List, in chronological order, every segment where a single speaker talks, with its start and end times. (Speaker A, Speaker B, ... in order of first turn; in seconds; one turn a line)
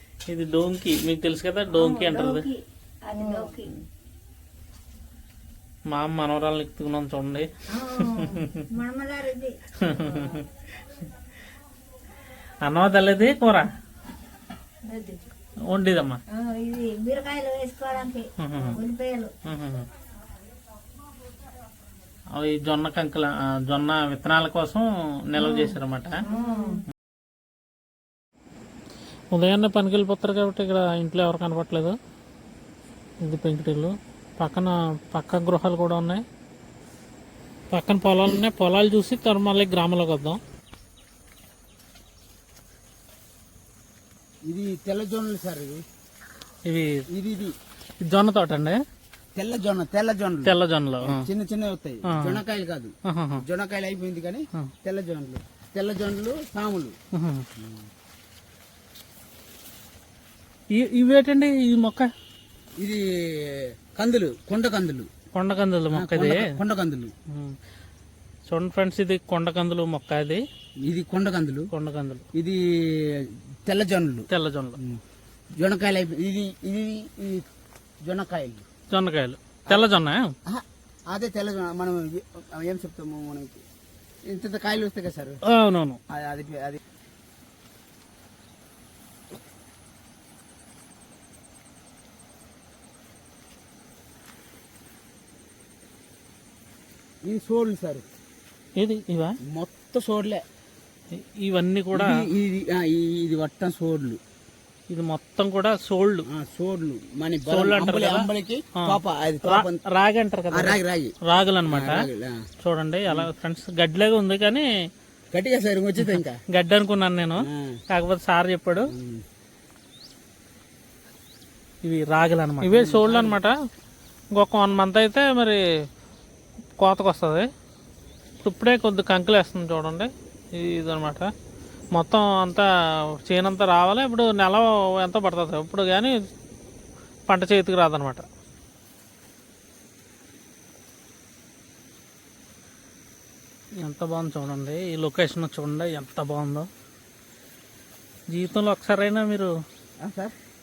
Speaker A: 0.3-2.5
Speaker B: 1.8-3.7
Speaker A: 5.9-8.7
Speaker B: 7.7-9.6
Speaker A: 9.8-10.5
Speaker A: 12.6-13.7
Speaker B: 14.8-15.2
Speaker A: 15.7-16.2
Speaker B: 16.3-19.3
Speaker A: 18.4-18.8
Speaker A: 19.4-19.9
Speaker A: 22.3-26.3
Speaker B: 26.3-26.8
Speaker A: 29.3-32.0
Speaker A: 33.2-36.2
Speaker A: 37.7-40.4
Speaker C: 44.5-45.8
Speaker A: 46.7-47.0
Speaker C: 47.1-47.5
Speaker A: 48.0-48.8
Speaker C: 49.4-57.0
Speaker A: 50.5-51.3
Speaker A: 52.1-52.4
Speaker A: 53.0-53.4
Speaker A: 57.1-57.5
Speaker A: 60.7-62.1
Speaker C: 62.8-65.1
Speaker A: 65.3-66.5
Speaker C: 65.9-67.1
Speaker A: 67.3-67.6
Speaker A: 68.5-70.4
Speaker C: 70.8-71.7
Speaker A: 71.7-72.2
Speaker C: 72.3-74.3
Speaker A: 74.3-74.8
Speaker C: 75.6-77.4
Speaker C: 78.0-78.6
Speaker A: 78.9-80.3
Speaker C: 80.5-83.6
Speaker C: 84.3-85.4
Speaker A: 85.5-86.0
Speaker C: 86.1-86.8
Speaker C: 97.3-98.0
Speaker A: 98.8-99.4
Speaker C: 99.5-100.4
Speaker A: 101.1-102.2
Speaker C: 101.9-104.2
Speaker A: 104.9-106.3
Speaker C: 106.3-109.8
Speaker A: 107.5-112.1
Speaker C: 110.5-111.2
Speaker C: 111.7-112.4
Speaker A: 112.6-114.7
Speaker C: 115.3-116.4
Speaker A: 116.1-118.9
Speaker C: 117.4-117.7
Speaker C: 118.9-119.2
Speaker A: 121.8-123.5
Speaker C: 122.6-123.4
Speaker A: 124.3-125.6
Speaker A: 126.8-127.5
Speaker A: 128.4-131.3
Speaker A: 131.9-136.2
Speaker A: 137.3-138.3
Speaker A: 143.8-146.7
Speaker A: 148.3-149.5
Speaker C: 150.0-150.3